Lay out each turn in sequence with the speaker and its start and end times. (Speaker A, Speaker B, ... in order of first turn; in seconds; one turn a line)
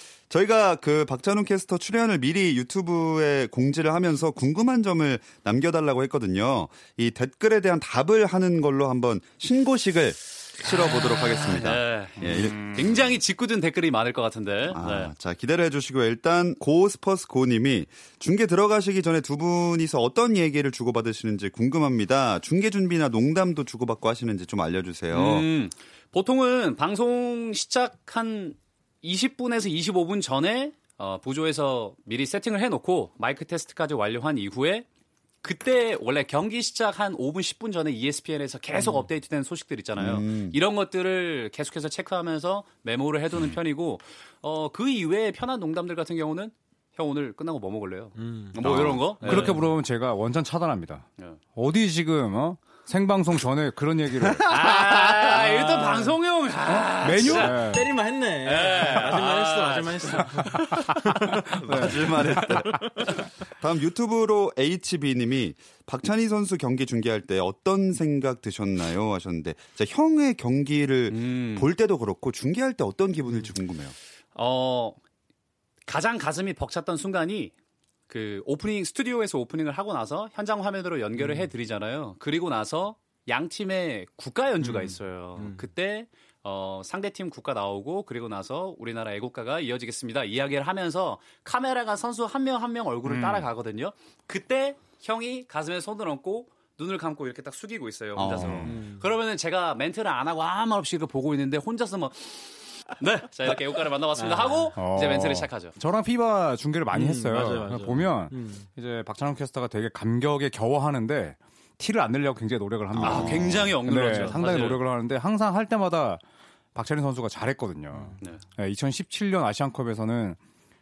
Speaker A: 0.3-13.0
Speaker B: 10.7-15.1
Speaker C: 12.2-12.9
Speaker A: 14.7-25.5
Speaker B: 25.1-34.9
Speaker B: 35.4-49.6
Speaker A: 40.0-40.6
Speaker D: 48.2-48.6
Speaker A: 48.6-49.0
Speaker C: 49.2-54.5
Speaker D: 49.2-49.6
Speaker A: 54.4-55.4
Speaker B: 54.5-57.7
Speaker D: 55.8-56.1
Speaker C: 56.7-57.9
Speaker D: 57.2-61.4
Speaker B: 58.5-62.4
Speaker C: 60.6-62.1
Speaker A: 61.3-74.0
Speaker B: 71.1-71.7
Speaker B: 74.3-75.0
Speaker B: 75.9-77.5
Speaker B: 78.1-105.7
Speaker D: 81.2-81.5
Speaker D: 84.6-85.7
Speaker C: 93.1-93.4
Speaker A: 98.2-98.8
Speaker C: 98.4-98.7
Speaker D: 98.7-99.0
Speaker D: 104.2-104.7
Speaker C: 104.8-116.2
Speaker D: 106.9-108.7
Speaker A: 112.9-113.8
Speaker B: 113.0-114.8
Speaker D: 114.2-114.6
Speaker C: 116.8-120.4
Speaker D: 117.9-118.2